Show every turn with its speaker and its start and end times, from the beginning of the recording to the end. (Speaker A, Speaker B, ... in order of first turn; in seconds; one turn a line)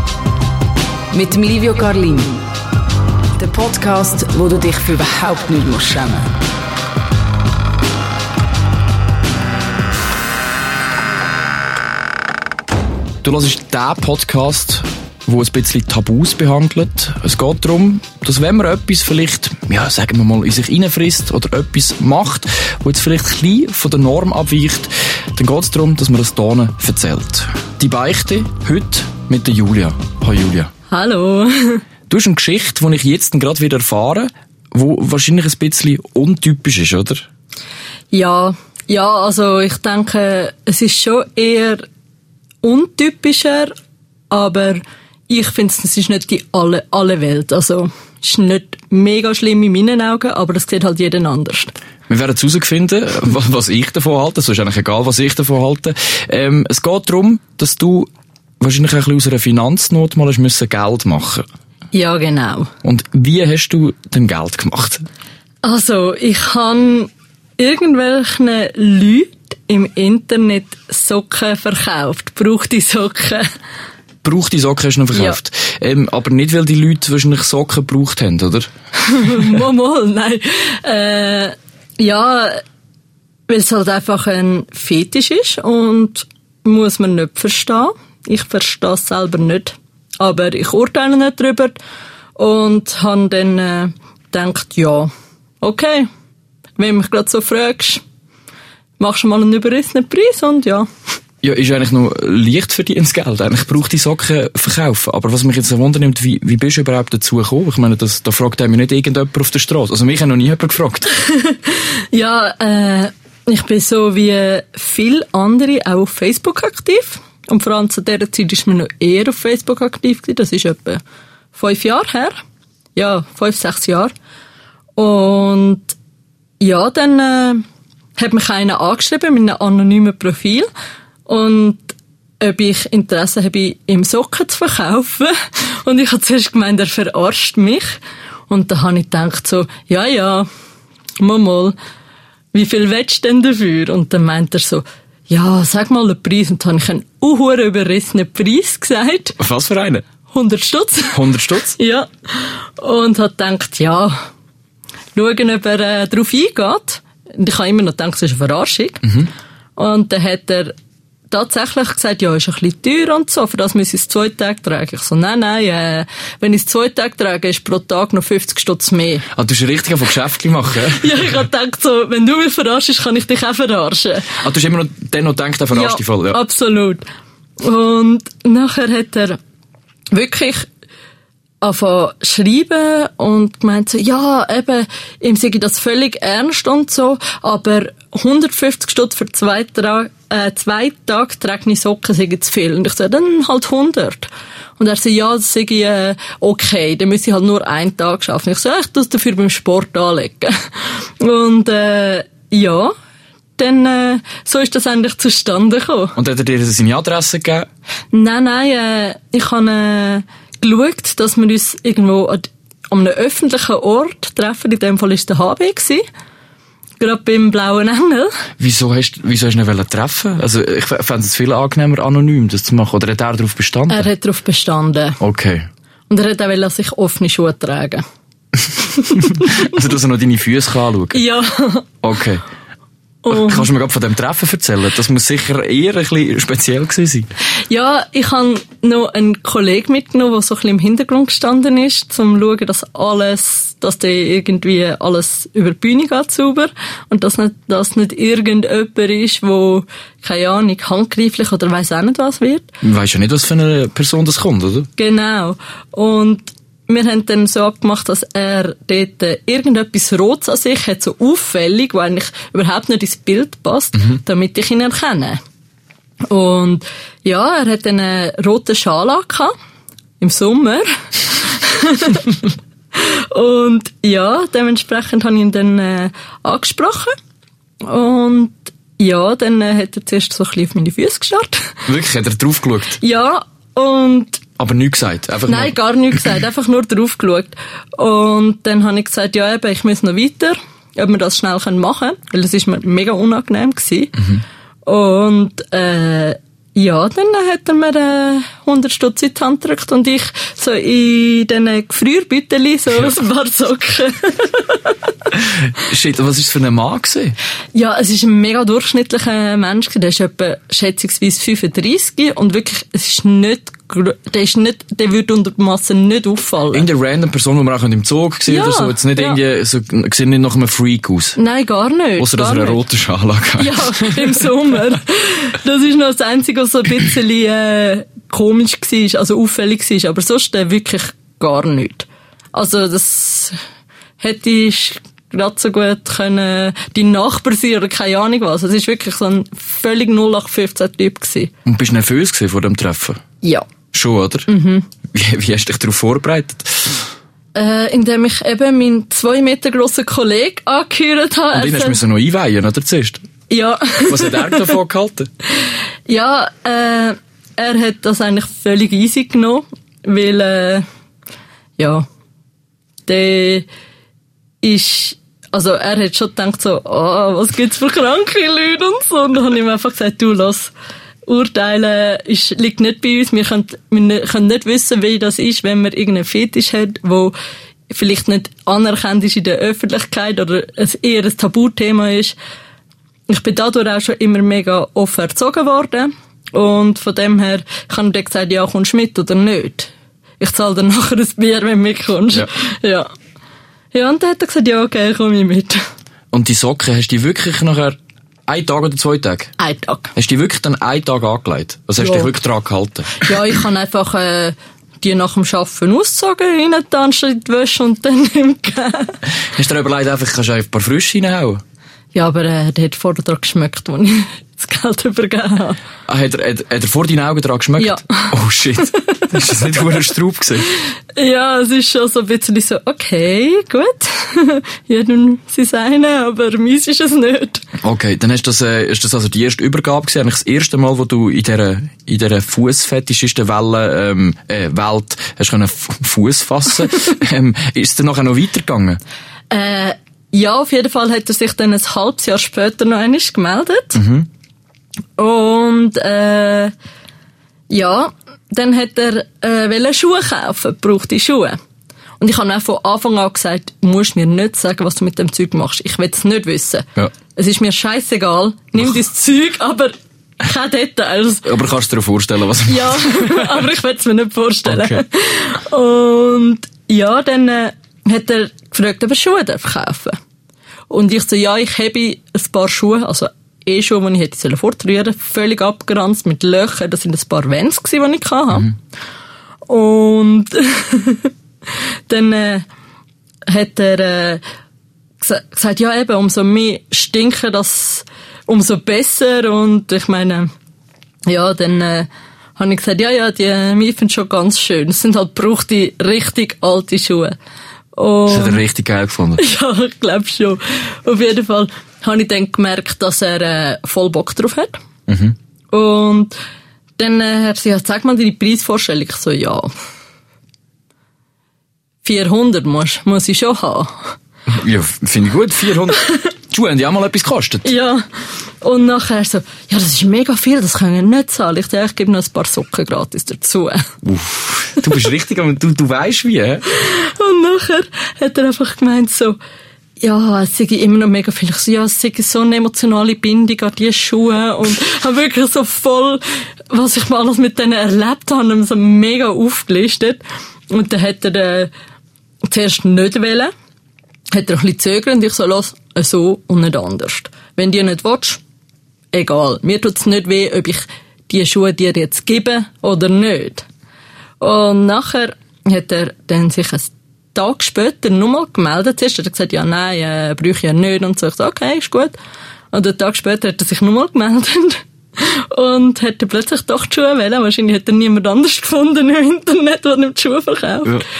Speaker A: 1.1-2.4
Speaker A: 3.4-6.3
Speaker B: 13.2-30.7
Speaker C: 30.9-31.8
Speaker B: 32.1-37.3
Speaker C: 38.1-41.8
Speaker C: 42.6-43.7
Speaker C: 44.3-51.7
Speaker B: 52.1-58.1
Speaker B: 58.6-61.4
Speaker C: 61.9-62.7
Speaker B: 62.8-65.0
Speaker C: 65.6-73.5
Speaker B: 74.2-78.7
Speaker C: 75.1-75.4
Speaker C: 79.0-82.6
Speaker C: 83.5-91.8
Speaker C: 92.3-95.1
Speaker C: 95.6-96.1
Speaker C: 96.8-98.0
Speaker C: 99.0-100.9
Speaker B: 101.4-111.1
Speaker C: 111.3-121.0
Speaker C: 121.5-122.4
Speaker C: 123.0-124.1
Speaker C: 125.0-126.0
Speaker C: 126.6-127.6
Speaker C: 128.2-130.7
Speaker C: 131.2-140.5
Speaker C: 141.2-141.7
Speaker C: 142.5-149.4
Speaker B: 149.4-150.0
Speaker C: 150.3-151.2
Speaker B: 151.1-151.8
Speaker C: 151.7-154.2
Speaker C: 155.1-159.1
Speaker B: 159.0-159.3
Speaker C: 159.8-160.7
Speaker C: 161.3-169.2
Speaker B: 169.3-171.3
Speaker C: 170.9-174.4
Speaker B: 174.4-176.4
Speaker C: 175.7-177.0
Speaker C: 177.6-179.4
Speaker C: 180.1-180.7
Speaker C: 181.6-202.9
Speaker C: 203.6-206.2
Speaker B: 206.2-207.7
Speaker C: 208.1-216.0
Speaker C: 217.0-218.4
Speaker B: 218.6-224.1
Speaker C: 223.9-225.2
Speaker B: 225.2-225.7
Speaker C: 226.1-228.0
Speaker C: 228.8-229.7
Speaker B: 229.3-231.2
Speaker C: 231.1-231.9
Speaker B: 232.0-232.4
Speaker C: 233.2-233.7
Speaker B: 233.3-237.3
Speaker C: 237.7-252.7
Speaker B: 252.8-254.9
Speaker C: 255.0-265.4
Speaker C: 266.3-269.5
Speaker C: 270.2-277.1
Speaker C: 277.8-281.8
Speaker B: 281.9-283.0
Speaker C: 283.0-284.4
Speaker B: 284.6-285.7
Speaker C: 285.5-305.0
Speaker B: 305.4-307.4
Speaker C: 307.7-316.9
Speaker B: 316.7-321.4
Speaker C: 318.5-319.4
Speaker C: 321.4-322.8
Speaker B: 322.2-324.5
Speaker C: 323.6-333.6
Speaker C: 334.2-341.5
Speaker B: 341.6-343.2
Speaker C: 343.4-343.7
Speaker B: 343.9-344.5
Speaker C: 344.5-344.9
Speaker B: 345.1-347.1
Speaker C: 347.5-352.0
Speaker B: 351.5-353.2
Speaker C: 353.5-354.7
Speaker B: 354.1-355.3
Speaker C: 356.1-360.8
Speaker C: 361.8-362.1
Speaker C: 363.1-363.7
Speaker C: 364.6-370.7
Speaker C: 371.2-377.3
Speaker C: 377.9-382.4
Speaker C: 383.3-393.1
Speaker C: 393.9-395.8
Speaker B: 396.3-397.9
Speaker B: 398.5-399.5
Speaker C: 399.6-400.1
Speaker B: 400.1-403.3
Speaker C: 402.0-402.3
Speaker C: 403.2-409.2
Speaker B: 409.6-411.6
Speaker C: 412.1-415.8
Speaker B: 416.1-420.7
Speaker C: 417.8-418.4
Speaker C: 421.1-427.6
Speaker B: 427.8-439.0
Speaker C: 439.5-444.0
Speaker B: 443.9-444.3
Speaker C: 445.2-446.7
Speaker C: 447.7-451.6
Speaker C: 452.2-461.5
Speaker B: 461.4-463.6
Speaker C: 462.6-470.1
Speaker B: 464.7-465.0
Speaker C: 470.9-478.7
Speaker C: 479.6-481.3
Speaker C: 482.1-482.7
Speaker C: 483.5-484.4
Speaker C: 485.2-490.5
Speaker C: 491.3-497.4
Speaker C: 497.9-498.6
Speaker B: 498.3-499.4
Speaker C: 499.4-504.8
Speaker B: 505.1-505.4
Speaker C: 505.7-506.3
Speaker C: 507.0-509.7
Speaker C: 512.0-514.1
Speaker B: 514.5-517.7
Speaker C: 517.6-523.9
Speaker B: 524.0-526.6
Speaker C: 526.7-529.4
Speaker C: 530.0-541.7
Speaker C: 542.5-543.5
Speaker C: 544.3-548.4
Speaker C: 549.1-553.6
Speaker C: 554.4-562.1
Speaker C: 562.7-571.0